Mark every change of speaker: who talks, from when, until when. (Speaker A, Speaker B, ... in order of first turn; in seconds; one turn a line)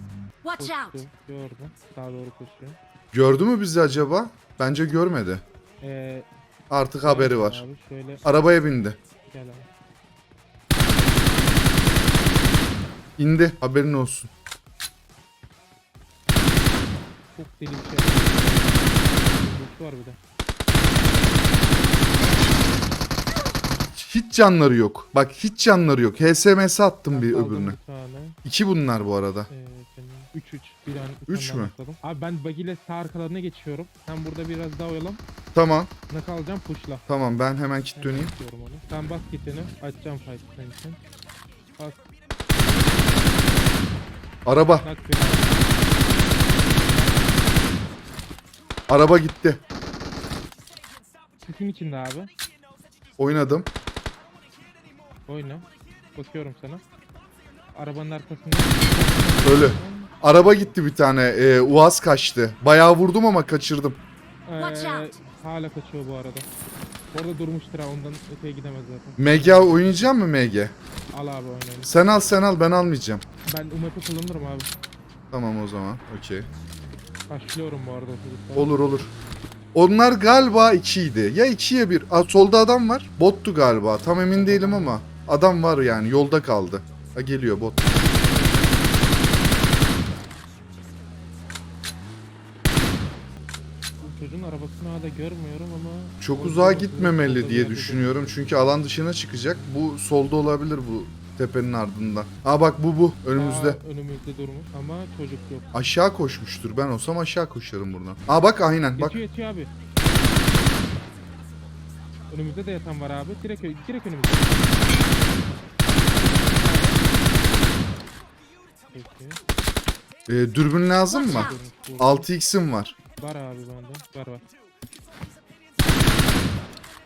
Speaker A: 0.5-2.8
Speaker B: 3.1-5.4
Speaker A: 5.8-6.3
Speaker B: 6.7-7.6
Speaker A: 7.0-8.2
Speaker B: 8.2-9.0
Speaker A: 9.3-9.7
Speaker B: 13.2-14.3
Speaker A: 17.3-20.2
Speaker B: 23.7-27.8
Speaker A: 27.1-28.4
Speaker B: 28.4-29.5
Speaker A: 29.5-35.2
Speaker B: 31.3-31.7
Speaker B: 35.5-35.9
Speaker A: 36.1-37.0
Speaker B: 37.1-38.3
Speaker A: 38.0-41.0
Speaker B: 44.5-44.9
Speaker A: 44.8-47.3
Speaker B: 48.9-49.6
Speaker A: 51.4-52.3
Speaker B: 53.2-53.7
Speaker A: 55.3-56.8
Speaker A: 57.7-60.7
Speaker B: 59.4-64.0
Speaker A: 64.5-66.5
Speaker A: 67.1-70.1
Speaker B: 69.2-70.7
Speaker A: 71.1-71.9
Speaker B: 71.8-73.2
Speaker A: 73.5-74.7
Speaker B: 75.3-76.5
Speaker A: 77.3-79.0
Speaker B: 78.5-79.1
Speaker B: 79.7-87.9
Speaker A: 84.3-85.0
Speaker A: 87.9-88.8
Speaker A: 94.0-98.4
Speaker B: 96.2-103.8
Speaker A: 103.3-105.7
Speaker B: 105.7-109.2
Speaker A: 108.9-109.7
Speaker A: 112.3-114.8
Speaker A: 116.1-117.0
Speaker A: 118.9-119.4
Speaker B: 120.3-122.9
Speaker A: 121.1-122.3
Speaker A: 123.2-124.4